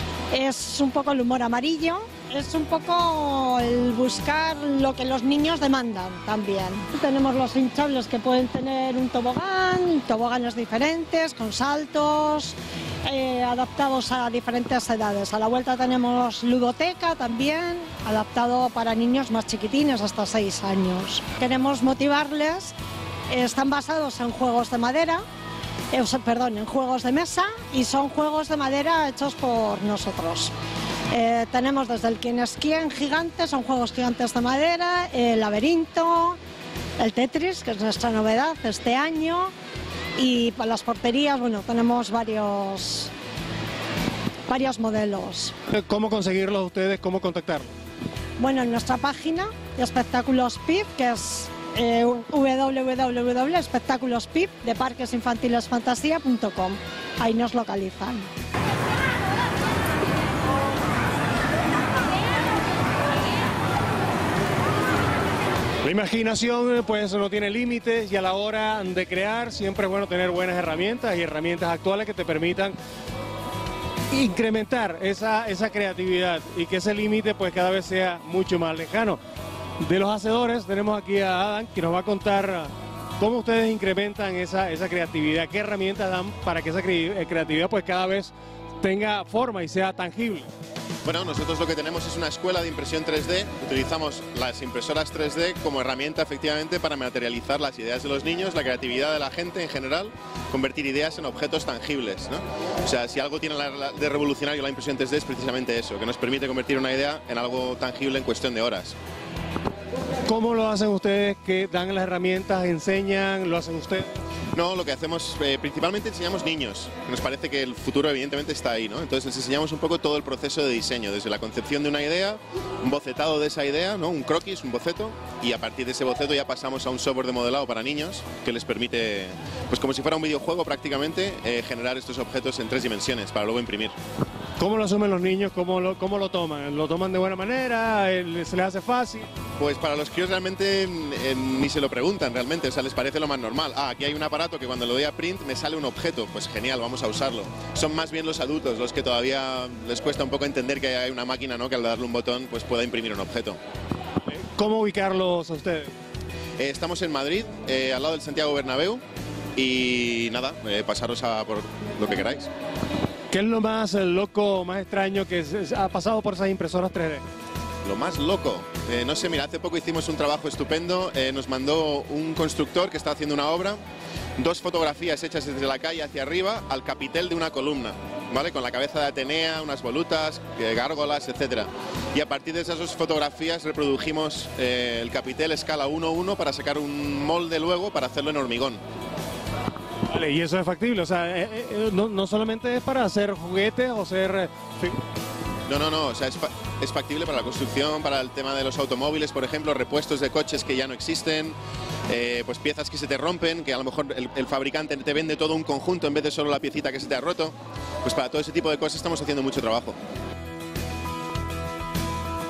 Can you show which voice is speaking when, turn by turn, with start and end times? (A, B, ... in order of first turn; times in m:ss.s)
0:00.3-0:22.7 A
0:23.3-0:25.2 A
0:25.9-0:30.5 A
0:31.1-0:36.4 A
0:37.0-0:39.5 A
0:40.2-0:43.1 A
0:44.5-0:45.5 A
0:45.7-0:47.7 B
0:48.4-0:58.3 A
1:05.8-1:12.8 B
1:14.1-1:19.2 B
1:19.8-1:30.5 B
1:31.0-1:49.0 C
1:50.3-1:54.1 B
1:54.5-2:13.9 C
2:14.6-2:19.3 B
2:19.6-2:33.6 C
2:34.3-2:35.9 B
2:36.6-2:39.0 C
2:39.6-2:42.5 C
2:43.3-2:47.2 B
2:47.8-2:53.8 C
2:54.4-3:08.8 C
3:10.1-3:15.0 B
3:15.7-3:21.6 C
3:22.1-3:30.0 C